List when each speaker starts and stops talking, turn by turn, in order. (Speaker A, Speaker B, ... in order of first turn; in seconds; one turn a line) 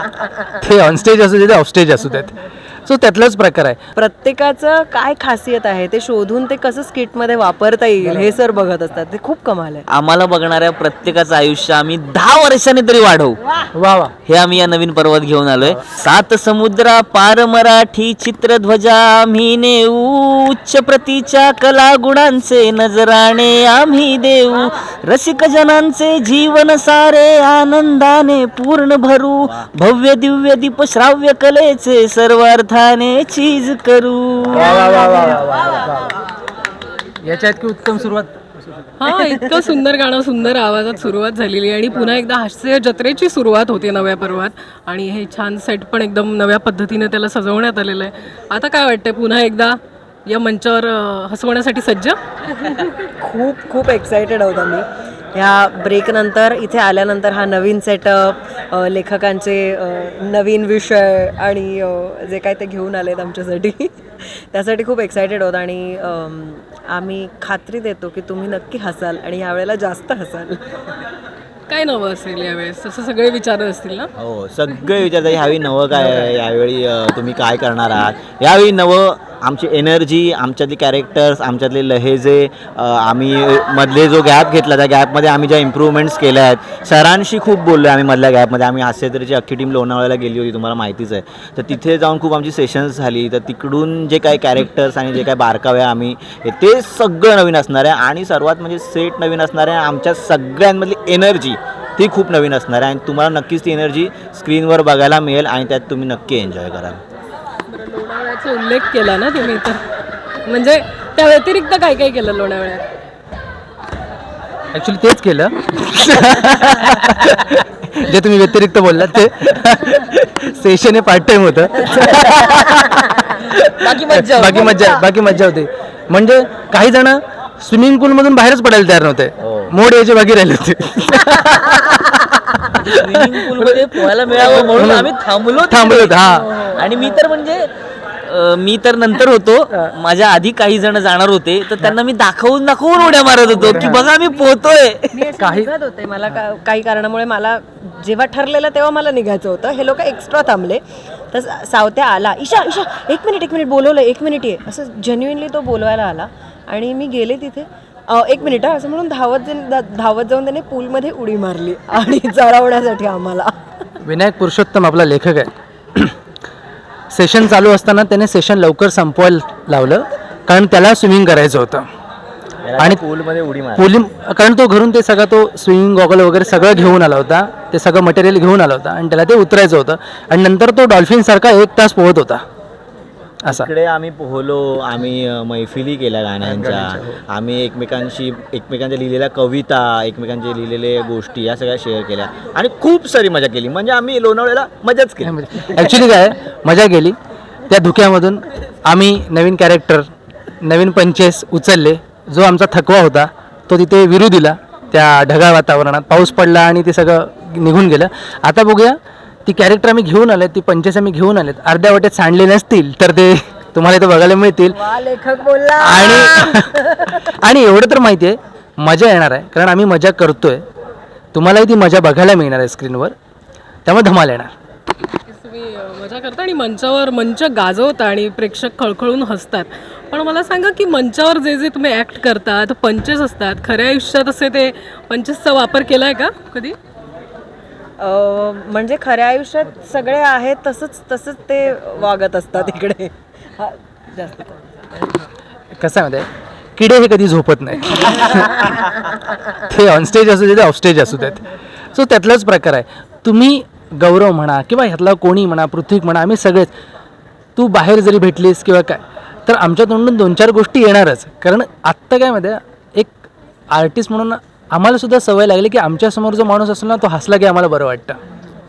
Speaker A: 0.5-3.8
Speaker B: 4.0-9.8
Speaker C: 9.9-13.4
Speaker A: 13.7-14.1
Speaker C: 14.2-34.8
Speaker D: 29.4-29.7
Speaker A: 34.5-36.1
Speaker A: 37.2-38.4
Speaker E: 39.0-52.2
Speaker B: 53.2-70.8
Speaker E: 71.7-74.1
Speaker D: 74.2-107.0
Speaker E: 107.7-109.8
Speaker E: 110.4-112.9
Speaker A: 114.7-134.0
Speaker C: 116.4-116.7
Speaker C: 121.9-125.0
Speaker D: 129.4-129.7
Speaker C: 132.7-137.7
Speaker A: 134.5-135.1
Speaker A: 135.7-136.5
Speaker B: 136.5-137.2
Speaker C: 138.2-145.3
Speaker A: 143.7-144.0
Speaker B: 145.1-163.5
Speaker A: 145.4-145.7
Speaker A: 164.0-166.1
Speaker A: 167.1-171.8
Speaker D: 172.6-174.0
Speaker A: 173.8-182.4
Speaker D: 183.5-195.4
Speaker A: 186.4-187.2
Speaker A: 195.2-197.2
Speaker A: 197.7-200.1
Speaker A: 200.6-215.0
Speaker B: 214.8-216.8
Speaker A: 215.8-220.6
Speaker A: 221.3-223.1
Speaker A: 223.8-224.5
Speaker E: 225.3-236.8
Speaker B: 238.0-244.6
Speaker A: 245.8-248.8
Speaker A: 249.5-256.7
Speaker A: 257.6-263.2
Speaker A: 263.7-268.2